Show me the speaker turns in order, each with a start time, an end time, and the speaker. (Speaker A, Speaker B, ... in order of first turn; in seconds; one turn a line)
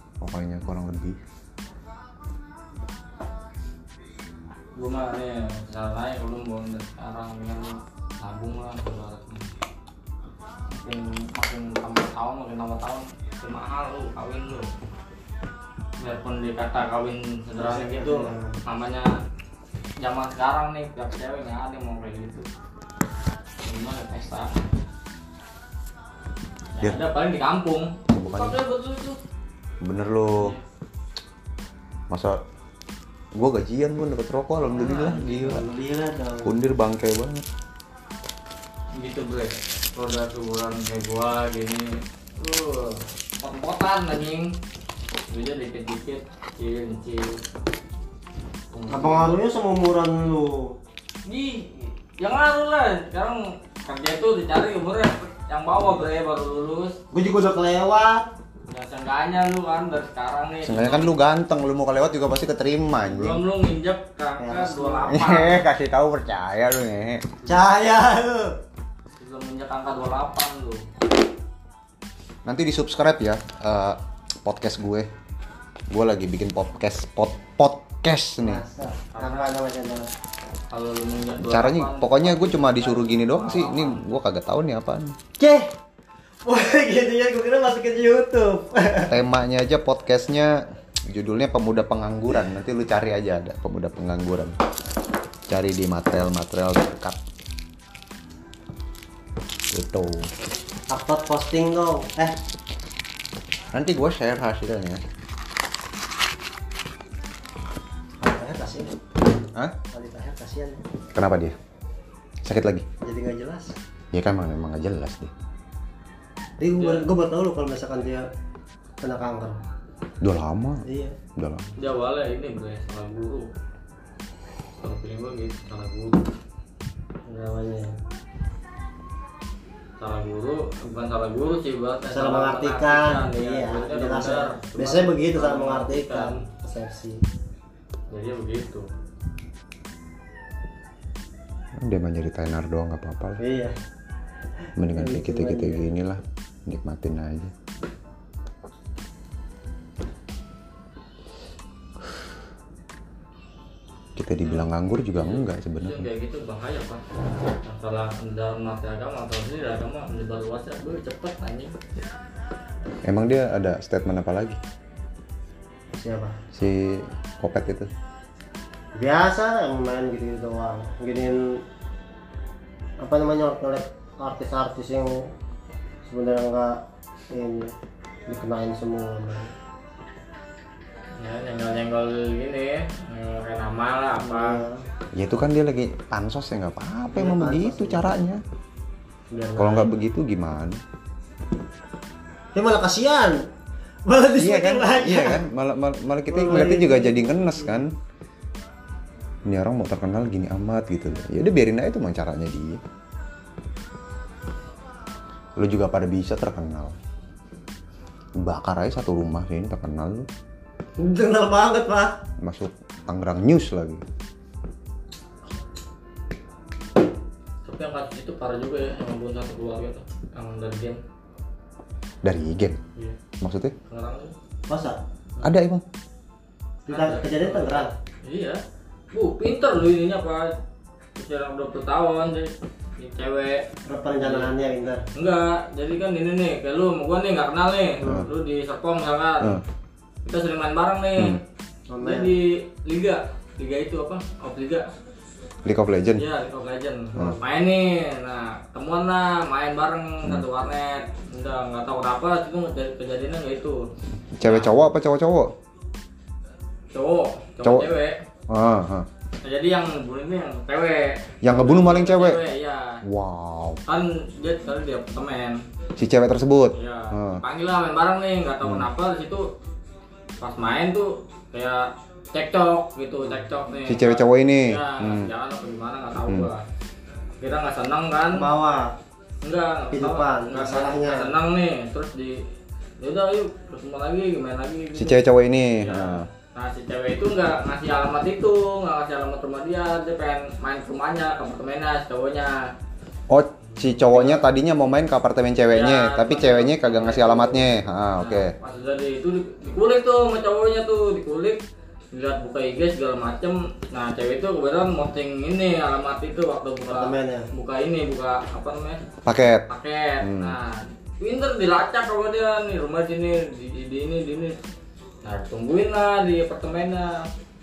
Speaker A: 0.2-1.2
Speaker B: 4.7-9.5
Speaker B: 10.7-14.7
Speaker B: 16.0-19.1
Speaker C: 17.5-18.6
Speaker B: 20.0-22.5
Speaker B: 23.6-24.7
Speaker B: 26.8-29.2
Speaker A: 28.1-28.6
Speaker A: 29.8-30.6
Speaker A: 32.1-32.4
Speaker A: 33.3-35.6
Speaker B: 34.7-35.3
Speaker C: 35.4-36.5
Speaker A: 36.4-37.5
Speaker B: 39.0-44.5
Speaker B: 45.3-47.4
Speaker B: 48.7-49.4
Speaker C: 48.9-50.7
Speaker B: 51.2-57.0
Speaker C: 57.1-58.3
Speaker B: 58.7-61.1
Speaker A: 60.6-63.4
Speaker B: 63.0-65.6
Speaker C: 64.4-65.1
Speaker A: 65.1-67.2
Speaker C: 67.5-68.5
Speaker B: 69.2-70.8
Speaker A: 72.4-75.1
Speaker A: 75.9-78.6
Speaker C: 78.4-80.1
Speaker B: 79.1-79.5
Speaker B: 80.7-84.0
Speaker A: 81.4-85.2
Speaker C: 85.4-85.7
Speaker C: 86.4-89.2
Speaker A: 89.1-94.5
Speaker A: 95.5-97.2
Speaker A: 99.7-100.3
Speaker C: 100.9-102.3
Speaker A: 103.7-105.0
Speaker C: 108.2-108.9
Speaker C: 109.9-110.8
Speaker A: 111.1-111.5
Speaker A: 112.4-112.8
Speaker C: 113.0-113.7
Speaker A: 114.1-115.3
Speaker C: 116.6-118.3
Speaker B: 116.8-117.1
Speaker C: 119.0-119.6
Speaker A: 120.2-120.8
Speaker C: 120.8-121.2
Speaker A: 121.3-121.7
Speaker B: 121.8-123.5
Speaker B: 124.8-126.2
Speaker C: 127.2-127.9
Speaker B: 130.0-136.4
Speaker C: 132.1-137.2
Speaker B: 138.1-138.9
Speaker A: 141.8-143.4
Speaker C: 143.4-143.7
Speaker A: 144.8-147.5
Speaker C: 144.9-145.9
Speaker A: 154.2-156.1
Speaker B: 155.1-157.0
Speaker B: 157.6-161.7
Speaker A: 163.0-164.6
Speaker C: 165.9-166.4
Speaker A: 166.5-167.9
Speaker C: 168.9-171.6
Speaker C: 173.0-175.2
Speaker C: 176.1-176.8
Speaker C: 177.3-177.7
Speaker C: 178.3-179.5
Speaker B: 181.2-184.6
Speaker C: 184.2-184.8
Speaker A: 185.2-188.4
Speaker C: 187.1-188.1
Speaker C: 189.3-189.9
Speaker A: 189.6-190.8
Speaker C: 192.5-193.4
Speaker C: 194.1-195.4
Speaker A: 194.4-197.9
Speaker C: 196.3-197.8
Speaker A: 199.5-202.8
Speaker A: 205.6-206.9
Speaker A: 208.4-210.3
Speaker C: 211.0-212.2
Speaker A: 212.4-214.0
Speaker B: 217.6-221.0
Speaker A: 222.2-222.8
Speaker A: 223.4-223.7
Speaker B: 223.8-224.3
Speaker C: 224.7-225.0
Speaker A: 225.4-225.8
Speaker C: 226.9-227.9
Speaker B: 226.9-228.6
Speaker B: 229.1-230.6
Speaker B: 231.2-233.6
Speaker C: 233.9-235.0
Speaker B: 234.2-234.5
Speaker B: 235.1-239.6
Speaker C: 238.0-238.3
Speaker B: 240.2-241.4
Speaker C: 241.9-242.3
Speaker B: 242.0-244.9
Speaker A: 245.6-246.2
Speaker B: 246.1-253.8
Speaker A: 254.3-255.5
Speaker B: 254.4-254.8
Speaker B: 256.9-258.2
Speaker A: 257.6-257.9
Speaker A: 258.5-259.1
Speaker B: 259.4-263.0
Speaker A: 261.4-262.4
Speaker A: 263.1-263.8
Speaker B: 263.9-265.6
Speaker A: 266.0-267.4
Speaker B: 266.7-269.4
Speaker B: 270.4-276.6
Speaker A: 273.8-275.3
Speaker B: 277.4-278.4
Speaker C: 278.3-278.9
Speaker B: 279.4-282.5
Speaker C: 279.9-281.3
Speaker B: 283.0-285.2
Speaker A: 284.9-286.2
Speaker B: 285.8-292.7
Speaker A: 293.3-298.5
Speaker B: 293.7-294.5
Speaker B: 295.7-301.6
Speaker B: 302.1-309.0
Speaker C: 306.9-307.5
Speaker A: 309.2-309.6
Speaker B: 309.7-314.6
Speaker A: 310.2-310.6
Speaker B: 315.2-317.3